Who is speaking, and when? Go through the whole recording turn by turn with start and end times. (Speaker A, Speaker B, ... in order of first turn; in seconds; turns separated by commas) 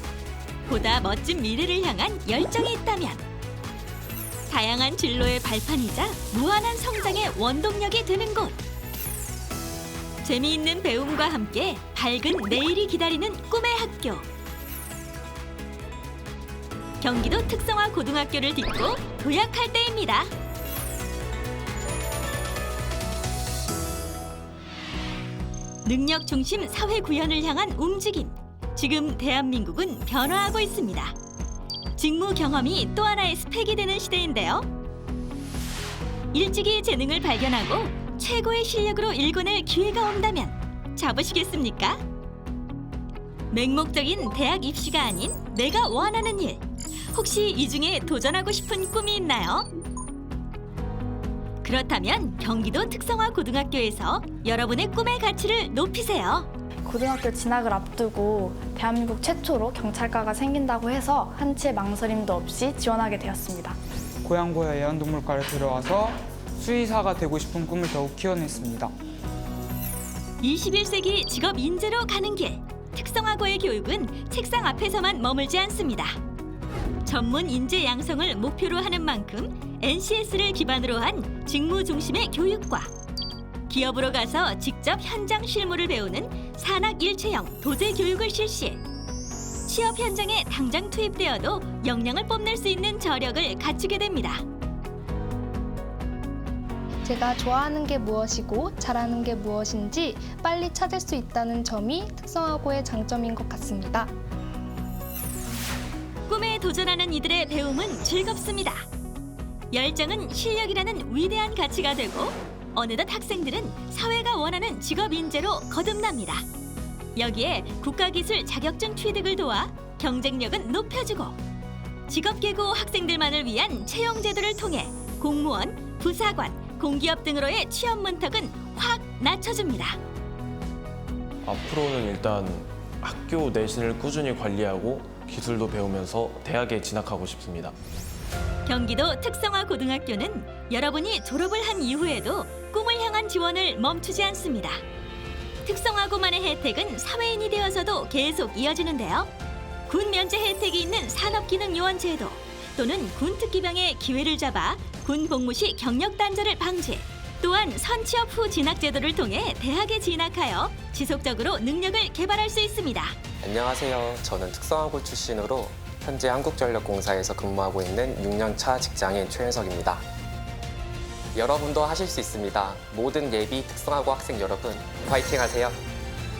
Speaker A: 0.7-3.2, Speaker A: 4.5-8.6, Speaker A: 10.2-14.2, Speaker A: 17.0-20.3, Speaker A: 25.8-31.1, Speaker A: 31.9-34.7, Speaker A: 36.3-42.0, Speaker A: 43.5-49.7, Speaker A: 51.6-56.5, Speaker B: 56.8-63.8, Speaker C: 64.2-68.9, Speaker A: 70.4-76.2, Speaker A: 77.0-82.9, Speaker A: 83.7-88.8, Speaker A: 89.7-94.4, Speaker D: 97.0-104.1, Speaker A: 106.3-108.8, Speaker A: 109.7-116.4, Speaker A: 117.2-121.4, Speaker A: 122.1-130.0, Speaker E: 131.4-137.7, Speaker A: 138.7-144.8, Speaker A: 145.6-149.3, Speaker A: 149.9-163.2, Speaker F: 163.4-170.0, Speaker F: 171.3-175.8